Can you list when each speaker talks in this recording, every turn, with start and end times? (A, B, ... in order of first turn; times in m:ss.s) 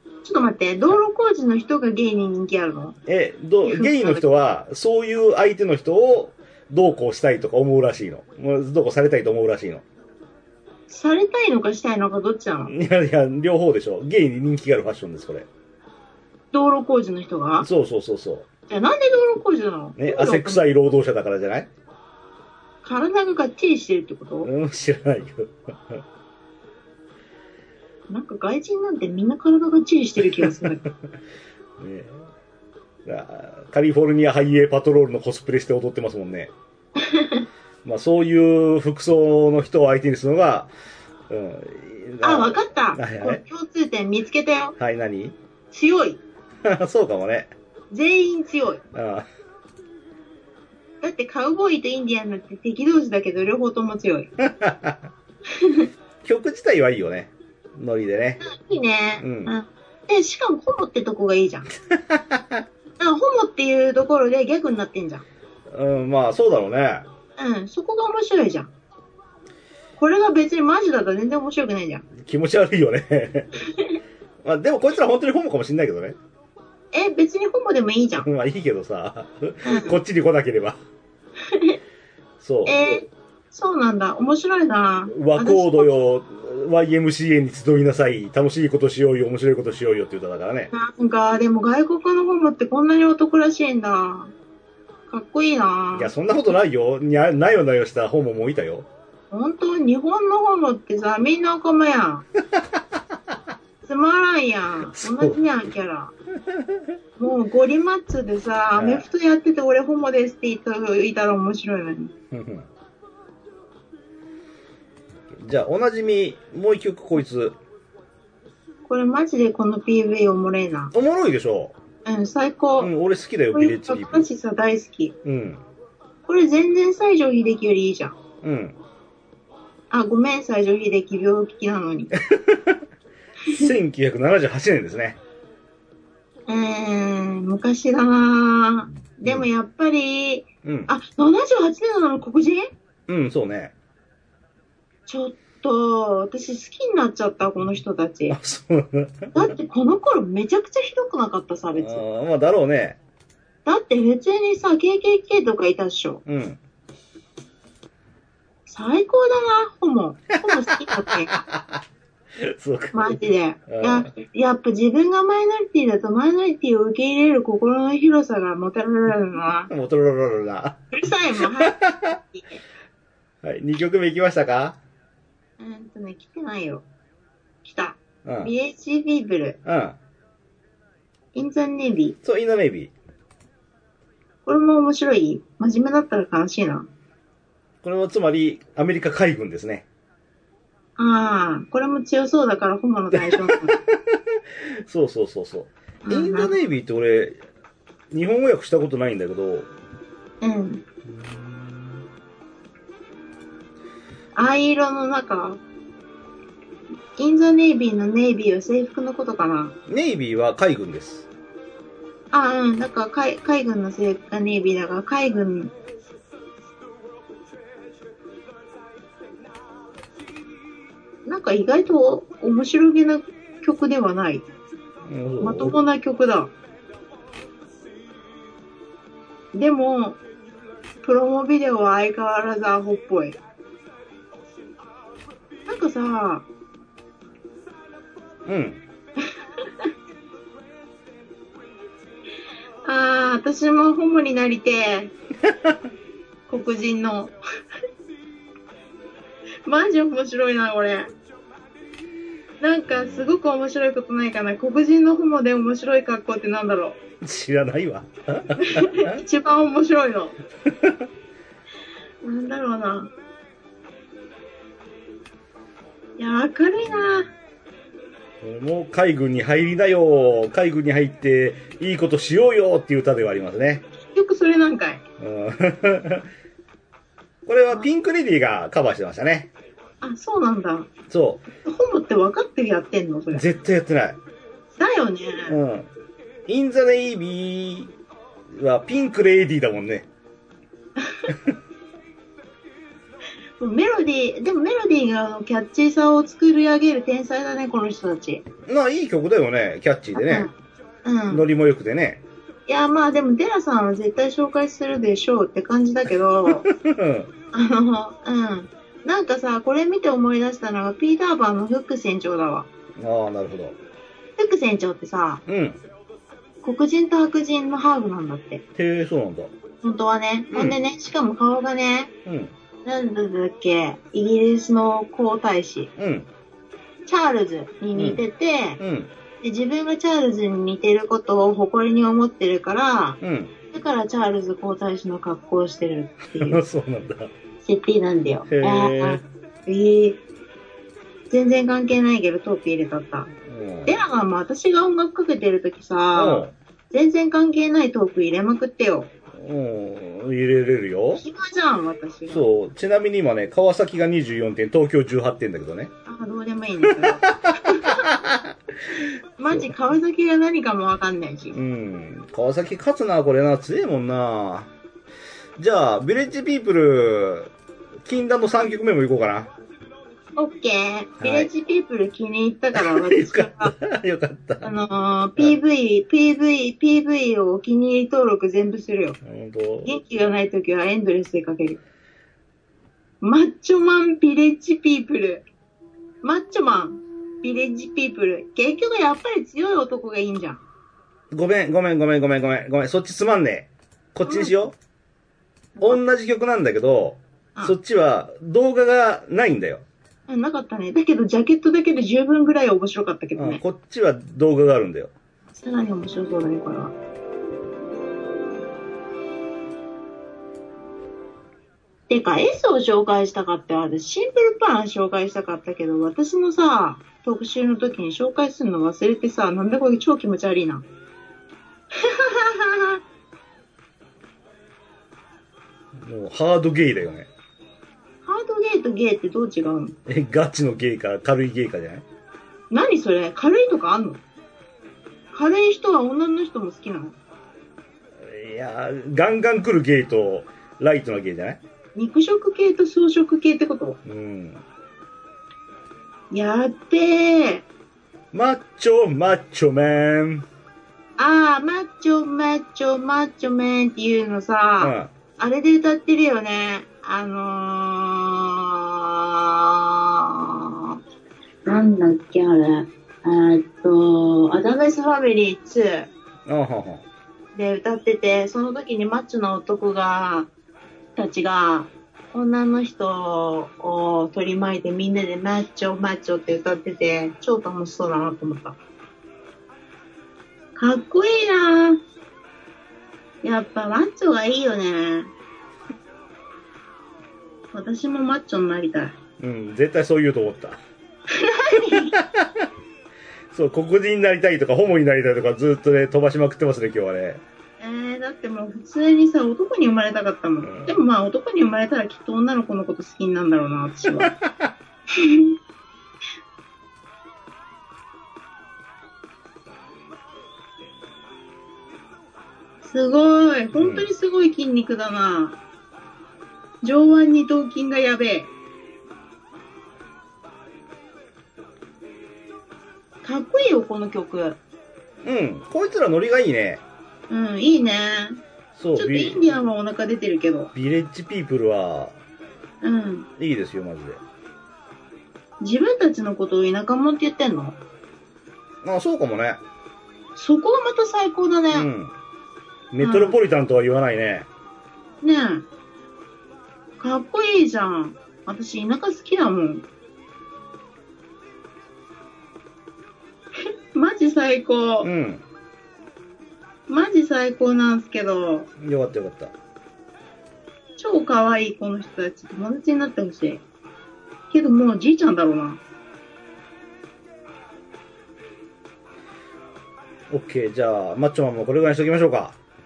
0:00.2-0:03.0 A
0:03.1-0:09.8 B
0:03.6-0:04.2 A
0:10.9-0:12.7 A
0:12.7-0:15.5 B
0:16.5-0:17.7 A
0:17.6-0:18.5 B
0:18.7-0:20.6 A
0:20.0-0:21.7 B
0:22.8-0:24.5 A
0:24.4-0:26.0 B
0:28.1-0:30.8 A
0:30.2-0:30.9 B
0:31.8-0:32.2 B
0:33.0-0:36.5 B
0:37.0-0:37.5 A
0:37.8-0:40.7 B
0:41.3-0:43.4 B
0:42.2-0:44.8 A
0:44.8-0:45.4 B
0:45.7-0:46.2 A
0:46.6-0:47.5 B
0:47.9-0:48.8 A
0:48.9-0:49.3 B
0:51.0-0:54.3 A
0:54.4-0:55.1 B
0:55.5-0:55.9 A
0:56.2-0:58.4 B
0:58.4-1:01.7 A
0:59.2-0:59.5 B
1:01.9-1:02.6 B
1:03.0-1:05.2 A
1:05.7-1:07.1 B
1:07.4-1:08.7 A
1:10.0-1:12.0 A
1:12.2-1:13.5 B
1:13.7-1:14.0 A
1:14.4-1:16.2 B
1:16.9-1:18.3 A
1:18.2-1:20.8 B
1:19.6-1:20.0 A
1:21.5-1:21.8 A
1:22.4-1:23.0 B
1:22.7-1:25.9 A
1:25.1-1:30.7 B
1:30.7-1:34.3 A
1:35.1-1:36.1 A
1:36.0-1:38.9 B
1:39.3-1:42.2 A
1:43.8-1:46.1 A
1:44.9-1:45.4 B
1:46.5-1:46.9 B
1:47.2-1:52.1 A
1:48.8-1:49.1 B
1:52.3-1:52.7 B
1:55.3-1:57.6 B
1:58.9-2:00.9 A
2:00.9-2:01.8 B
2:02.0-2:02.9 A
2:02.8-2:04.3 B
2:03.5-2:05.2 A
2:05.2-2:05.6 B
2:06.3-2:08.2 A
2:08.4-2:08.8 B
2:09.9-2:12.1 A
2:12.2-2:12.8 B
2:13.5-2:13.8 A
2:13.5-2:15.2 B
2:16.5-2:22.7 A
2:20.6-2:20.9 B
2:23.1-2:23.7 B
2:25.1-2:28.4 A
2:28.3-2:29.5 B
2:29.3-2:32.0 A
2:31.8-2:33.0 B
2:33.6-2:36.2 A
2:36.3-2:36.6 B
2:38.7-2:41.4 A
2:40.4-2:41.8 B
2:42.4-2:44.1 B
2:42.9-2:49.7 A
2:49.7-2:50.8 B
2:50.9-2:52.6 A
2:51.6-2:52.2 B
2:53.4-2:54.8 B
2:55.6-2:56.8 A
2:57.6-2:59.6 A
2:58.2-2:58.5 B
2:59.6-3:00.0 B
3:01.3-3:02.2 A
3:02.2-3:02.9 B
3:04.5-3:06.9 A
3:07.8-3:09.9 B
3:11.0-3:13.8 A
3:13.1-3:17.4 B
3:16.0-3:16.6 A
3:18.1-3:19.7 B
3:20.4-3:20.8 A
3:21.1-3:22.0 B
3:24.4-3:25.6 A
3:27.2-3:29.8 A
3:29.9-3:31.3 B
3:32.3-3:35.7 A
3:41.3-3:44.5 A
3:45.0-3:45.8 B
3:45.4-3:46.5 A
3:49.5-3:50.2 A
3:51.0-3:53.4 A
3:55.7-3:56.4 A
3:58.5-3:58.8 B
4:02.8-4:05.1 A
4:05.5-4:05.8 B
4:06.5-4:07.4 A
4:09.6-4:11.1 A
4:12.6-4:17.0 A
4:12.9-4:13.4 B
4:17.2-4:19.2 B
4:18.6-4:20.4 A
4:20.7-4:21.1 B
4:22.2-4:23.1 A
4:26.2-4:27.3 A
4:28.4-4:33.8 B
4:34.0-4:35.0 A
4:35.2-4:36.3 B
4:37.5-4:39.5 B
4:40.0-4:40.9 A
4:41.1-4:41.4 B
4:41.6-4:43.4 A
4:43.3-4:44.2 B
4:44.8-4:45.6 A
4:45.5-4:45.9 B
4:46.5-4:47.9 B
4:48.5-4:50.1 B
4:51.0-4:51.3 A
4:53.6-4:58.4 A
4:58.7-5:00.5 B
5:00.2-5:00.5 A
5:01.0-5:01.4 A
5:01.3-5:02.2 B
5:02.7-5:06.7 A
5:06.5-5:07.3 B
5:07.5-5:12.7 A
5:13.0-5:13.8 B
5:14.4-5:15.4 A
5:15.5-5:15.8 B
5:16.6-5:18.6 A
5:18.8-5:19.5 B
5:19.8-5:22.1 A
5:20.5-5:20.8 B
5:22.3-5:22.5 B
5:22.8-5:25.9 A
5:26.0-5:26.3 B
5:27.1-5:28.8 A
5:28.0-5:28.2 B
5:28.8-5:29.1 B
5:29.4-5:33.2 A
5:33.2-5:33.5 B
5:33.7-5:36.6 A
5:36.4-5:37.3 B
5:37.6-5:40.2 A
5:38.5-5:39.2 B
5:41.3-5:43.3 A
5:43.4-5:44.0 B
5:43.9-5:49.1 A
5:46.2-5:46.5 B
5:49.3-5:51.2 B
5:51.2-5:52.5 A
5:52.3-5:55.9 B
5:56.1-5:58.1 A
5:56.9-5:58.6 B
5:59.4-6:01.6 A
6:01.5-6:04.7 B
6:05.6-6:07.5 B
6:08.0-6:09.5 B
6:10.4-6:13.7 A
6:11.2-6:11.5 B
6:12.7-6:14.7 B
6:14.6-6:19.2 A
6:19.2-6:20.0 B
6:19.8-6:21.8 A
6:23.2-6:25.5 A
6:26.2-6:30.6 A
6:31.3-6:34.8 B
6:34.2-6:34.6 A
6:35.8-6:39.8 B
6:40.3-6:43.6 A
6:43.4-6:45.1 B
6:45.6-6:46.9 A
6:52.1-7:00.8 A
7:02.0-7:03.0 A
7:06.0-7:07.3 B
7:08.2-7:10.0 A
7:10.1-7:12.0 B
7:12.7-7:14.2 A
7:15.3-7:17.2 A
7:18.2-7:21.6 B
7:22.0-7:24.0 A
7:24.0-7:24.6 B
7:26.3-7:27.7 A
7:28.3-7:30.5 B
7:31.2-7:41.0 A
7:34.8-7:35.1 B
7:41.7-7:46.1 A
7:46.5-7:47.0 B
7:47.6-7:50.5 A
7:51.2-7:58.8 A
8:00.8-8:02.0 A
8:03.4-8:05.3 A
8:07.7-8:09.2 A
8:09.4-8:10.8 B
8:11.3-8:12.2 A
8:11.9-8:12.7 B
8:13.5-8:17.4 B
8:17.8-8:24.3 A
8:20.6-8:21.0 B
8:24.2-8:24.7 B
8:25.2-8:25.6 A
8:32.8-8:35.6 A
8:33.7-8:34.1 B
8:36.8-8:38.5 A
8:43.2-8:44.6 A
8:45.2-8:46.8 B
8:47.3-8:48.4 A
8:48.8-8:49.4 B
8:49.0-8:50.7 A
8:50.8-8:52.2 B
8:52.8-8:53.3 A
8:53.4-8:54.2 B
8:55.6-8:57.8 A
8:58.8-8:59.6 B
9:00.4-9:01.9 A
9:01.7-9:02.1 B
9:02.9-9:04.5 B
9:03.0-9:03.4 A
9:05.2-9:05.7 A
9:07.0-9:09.8 A
9:13.9-9:15.1 A
9:15.0-9:15.4 B
9:16.9-9:18.7 A
9:18.8-9:19.5 B
9:21.0-9:23.6 A
9:24.5-9:25.8 A
9:30.3-9:32.6 B